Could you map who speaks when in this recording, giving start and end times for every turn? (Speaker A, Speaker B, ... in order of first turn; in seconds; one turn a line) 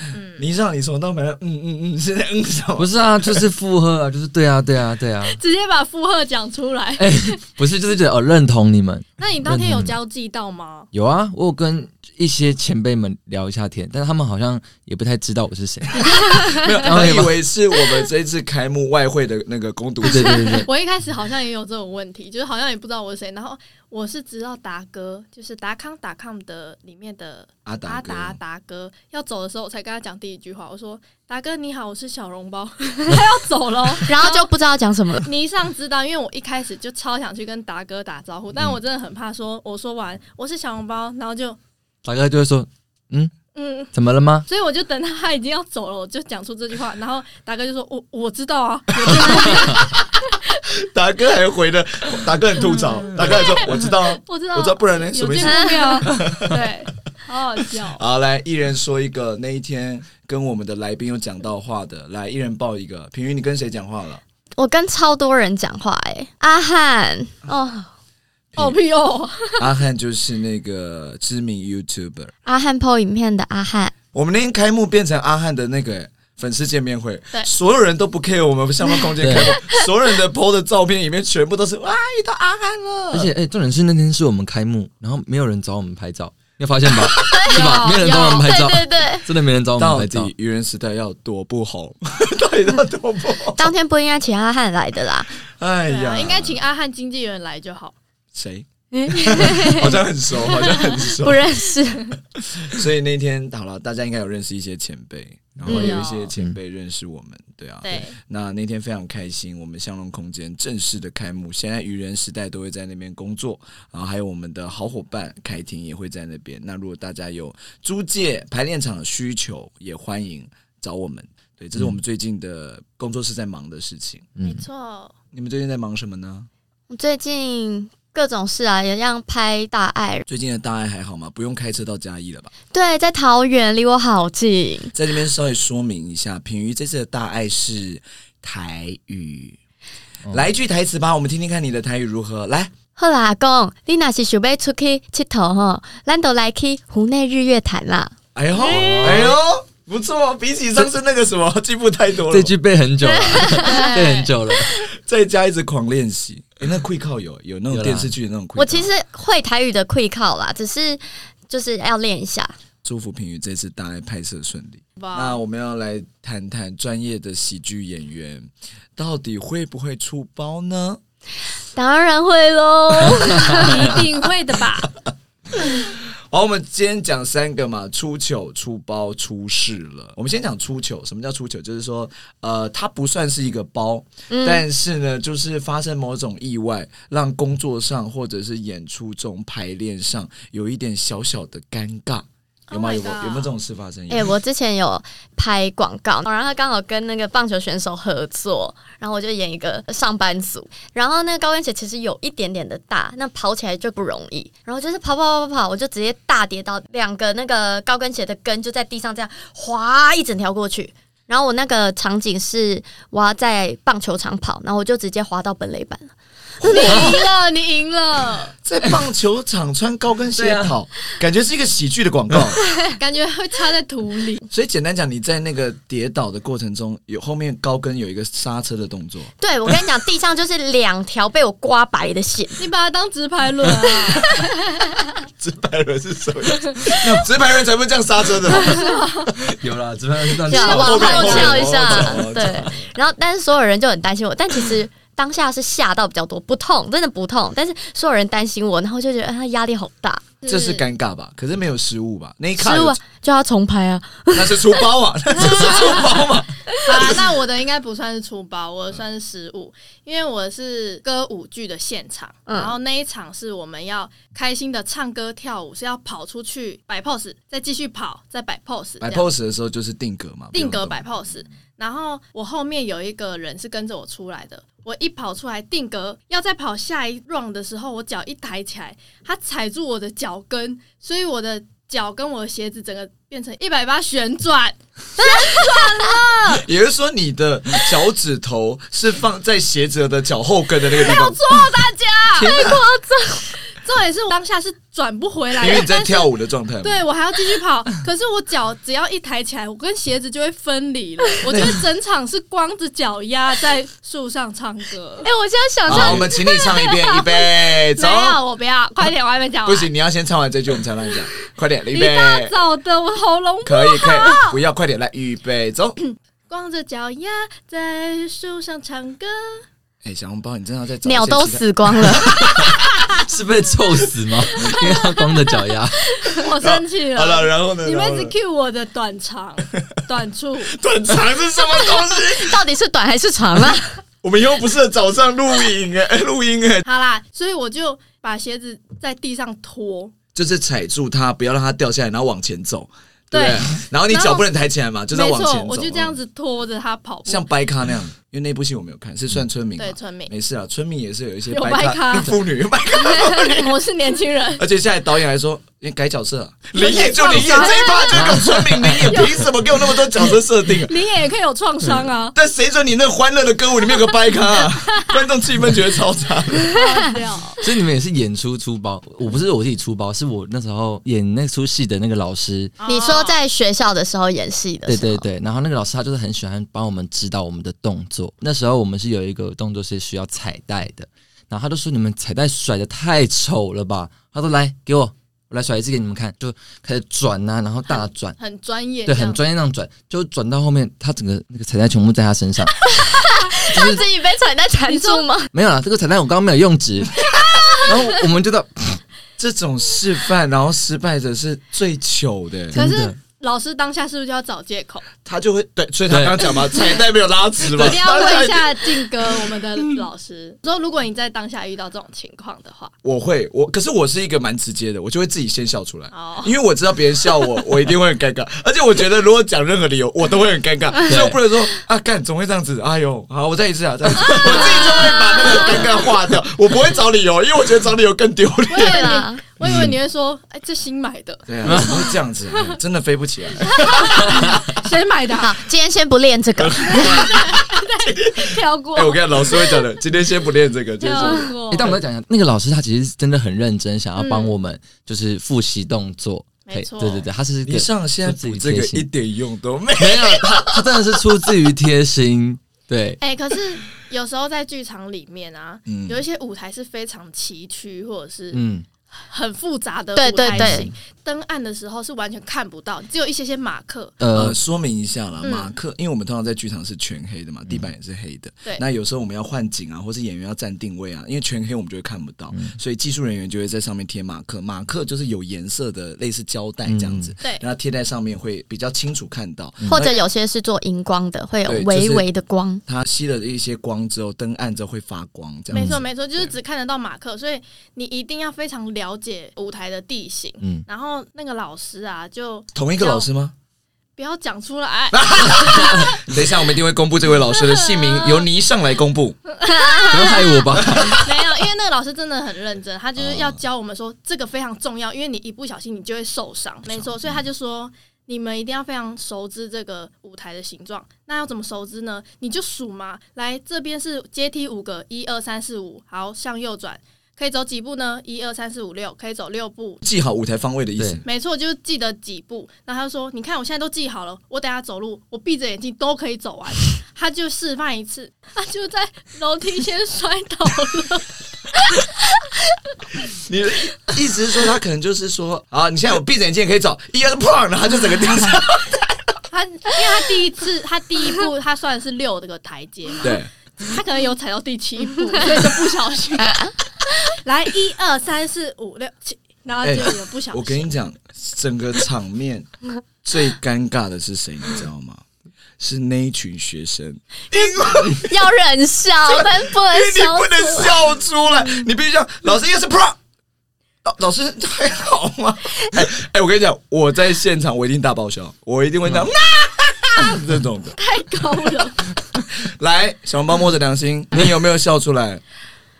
Speaker A: 0.1-0.5
Speaker B: 0.4-3.5
Speaker C: 2.8-5.4
Speaker A: 5.2-7.4
Speaker C: 7.0-9.9
Speaker A: 9.2-10.9
Speaker C: 10.9-17.4
Speaker A: 16.0-16.9
Speaker B: 16.3-20.6
Speaker C: 20.0-20.7
Speaker A: 20.5-34.5
Speaker B: 27.6-28.4
Speaker D: 34.0-35.2
Speaker A: 35.2-41.6
Speaker C: 42.0-43.3
Speaker A: 43.5-43.9
Speaker C: 43.9-44.5
Speaker A: 44.5-50.5
Speaker B: 48.9-50.0
Speaker C: 49.3-49.7
Speaker B: 50.7-56.6
Speaker A: 52.6-58.0
Speaker D: 55.4-56.0
Speaker B: 57.6-64.2
Speaker D: 64.6-67.9
Speaker A: 68.6-69.7
Speaker B: 69.6-72.3
Speaker D: 72.5-73.9
Speaker B: 74.1-83.3
Speaker C: 79.2-79.6
Speaker C: 83.1-90.3
Speaker D: 87.2-89.2
Speaker A: 87.3-88.5
Speaker B: 89.8-93.7
Speaker D: 93.5-95.3
Speaker B: 95.6-96.6
Speaker A: 95.9-98.0
Speaker B: 98.3-101.6
Speaker D: 98.9-100.0
Speaker D: 100.8-102.1
Speaker B: 102.3-124.3
Speaker C: 105.6-106.5
Speaker A: 105.7-106.3
Speaker D: 105.7-106.0
Speaker A: 107.8-108.2
Speaker C: 124.4-124.7
Speaker A: 124.4-125.1
Speaker B: 125.3-126.5
Speaker D: 126.9-130.2
Speaker B: 130.3-132.5
Speaker D: 132.7-134.9
Speaker B: 134.9-139.6
Speaker B: 140.3-142.7
Speaker D: 142.9-149.1
Speaker B: 148.3-152.5
Speaker A: 148.6-149.2
Speaker C: 148.7-149.4
Speaker C: 152.3-154.8
Speaker D: 153.0-154.3
Speaker A: 153.4-154.3
Speaker B: 154.8-158.9
Speaker C: 157.7-158.1
Speaker D: 158.6-162.5
Speaker B: 162.8-171.0
Speaker A: 165.0-165.4
Speaker D: 171.7-174.0
Speaker A: 173.3-174.9
Speaker B: 173.8-174.1
Speaker B: 174.8-194.3
Speaker D: 184.3-184.6
Speaker A: 192.7-193.5
Speaker D: 194.1-216.1
Speaker B: 216.6-217.2
Speaker A: 216.6-218.5
Speaker C: 216.8-217.1
Speaker B: 218.6-222.6
Speaker C: 220.3-220.7
Speaker A: 222.9-224.4
Speaker B: 224.5-229.3
Speaker D: 229.4-232.7
Speaker A: 232.6-235.1
Speaker B: 235.4-239.0
Speaker A: 238.7-239.3
Speaker C: 239.4-242.3
Speaker D: 240.5-250.3
Speaker A: 240.5-241.7
Speaker B: 240.6-242.9
Speaker A: 250.4-250.8
Speaker B: 250.4-253.0
Speaker D: 252.6-254.9
Speaker B: 254.3-257.2
Speaker A: 255.3-256.2
Speaker A: 256.8-269.3
Speaker D: 262.5-262.7
Speaker B: 269.0-271.0
Speaker A: 270.5-286.6
Speaker D: 285.2-286.0
Speaker B: 286.6-291.5
Speaker A: 290.9-296.3
Speaker B: 292.3-292.8
Speaker D: 292.5-293.2
Speaker B: 295.6-297.0
Speaker A: 296.8-305.3
Speaker B: 301.4-301.8
Speaker D: 305.2-306.7
Speaker A: 305.9-306.2
Speaker B: 305.9-308.4
Speaker A: 307.3-309.9
Speaker B: 309.6-312.6
Speaker A: 311.9-314.6
Speaker B: 313.6-316.0
Speaker A: 316.5-319.6
Speaker B: 320.0-323.0
Speaker D: 321.0-322.4
Speaker C: 322.6-326.2
Speaker A: 324.6-325.4
Speaker A: 326.1-330.8
Speaker B: 326.6-328.3
Speaker B: 330.8-332.6
Speaker D: 332.3-334.0
Speaker B: 334.2-336.9
Speaker A: 336.8-340.1
Speaker B: 340.3-346.2
Speaker A: 343.3-344.5
Speaker A: 345.1-347.5
Speaker B: 347.2-353.7
Speaker A: 349.8-350.3
Speaker A: 351.5-352.4
Speaker A: 352.9-354.6
Speaker B: 354.6-360.9
Speaker A: 356.7-359.6
Speaker C: 357.3-357.6
Speaker C: 358.1-359.3
Speaker A: 360.2-362.3
Speaker B: 362.3-366.7
Speaker A: 364.5-365.2
Speaker A: 366.7-367.6
Speaker C: 367.6-372.7
Speaker A: 372.8-373.4
Speaker D: 372.9-375.3
Speaker C: 374.9-388.4
Speaker A: 388.4-389.4
Speaker C: 389.1-392.9
Speaker D: 392.9-395.5
Speaker C: 393.7-394.0
Speaker A: 394.9-395.2
Speaker C: 395.5-399.0
Speaker B: 399.4-402.8
Speaker C: 402.7-403.1
Speaker A: 402.7-405.1
Speaker B: 405.2-409.1
Speaker C: 406.1-406.5
Speaker A: 407.6-412.9
Speaker B: 413.0-429.1
Speaker A: 416.1-416.5
Speaker C: 421.1-421.4
Speaker A: 424.2-425.9
Speaker A: 428.7-432.1
Speaker D: 428.9-429.4
Speaker C: 429.6-429.9
Speaker B: 431.5-434.6
Speaker C: 431.6-432.1
Speaker A: 433.6-435.6
Speaker C: 434.2-434.8
Speaker D: 435.4-437.2
Speaker B: 436.6-442.0
Speaker A: 436.8-439.8
Speaker A: 441.0-442.0
Speaker C: 441.7-449.1
Speaker A: 444.2-444.5
Speaker A: 446.7-447.3
Speaker B: 447.6-451.5
Speaker C: 450.0-453.2
Speaker A: 453.2-464.1
Speaker B: 455.9-456.2
Speaker C: 458.5-458.8
Speaker D: 460.1-460.9
Speaker C: 460.5-460.9
Speaker C: 464.2-464.6
Speaker B: 464.3-480.2
Speaker A: 465.4-465.7
Speaker C: 472.5-472.8
Speaker C: 476.9-477.3
Speaker D: 479.9-482.8
Speaker B: 481.6-482.2
Speaker B: 482.9-486.5
Speaker C: 485.7-486.0
Speaker A: 485.7-493.3
Speaker B: 492.7-493.5
Speaker A: 494.2-496.2
Speaker B: 495.1-499.4
Speaker A: 497.6-498.4
Speaker A: 499.6-520.0
Speaker D: 499.6-500.5
Speaker C: 500.0-501.3
Speaker B: 500.8-501.3
Speaker B: 503.2-503.6
Speaker B: 520.0-521.2
Speaker C: 521.0-521.2
Speaker A: 521.2-532.3
Speaker B: 533.2-539.4
Speaker A: 539.5-550.9
Speaker B: 543.2-543.5
Speaker B: 549.8-552.7
Speaker B: 553.2-555.2
Speaker B: 555.8-558.5
Speaker D: 557.5-560.9
Speaker B: 559.2-563.2
Speaker B: 564.0-571.0
Speaker A: 571.0-572.0
Speaker B: 572.5-575.4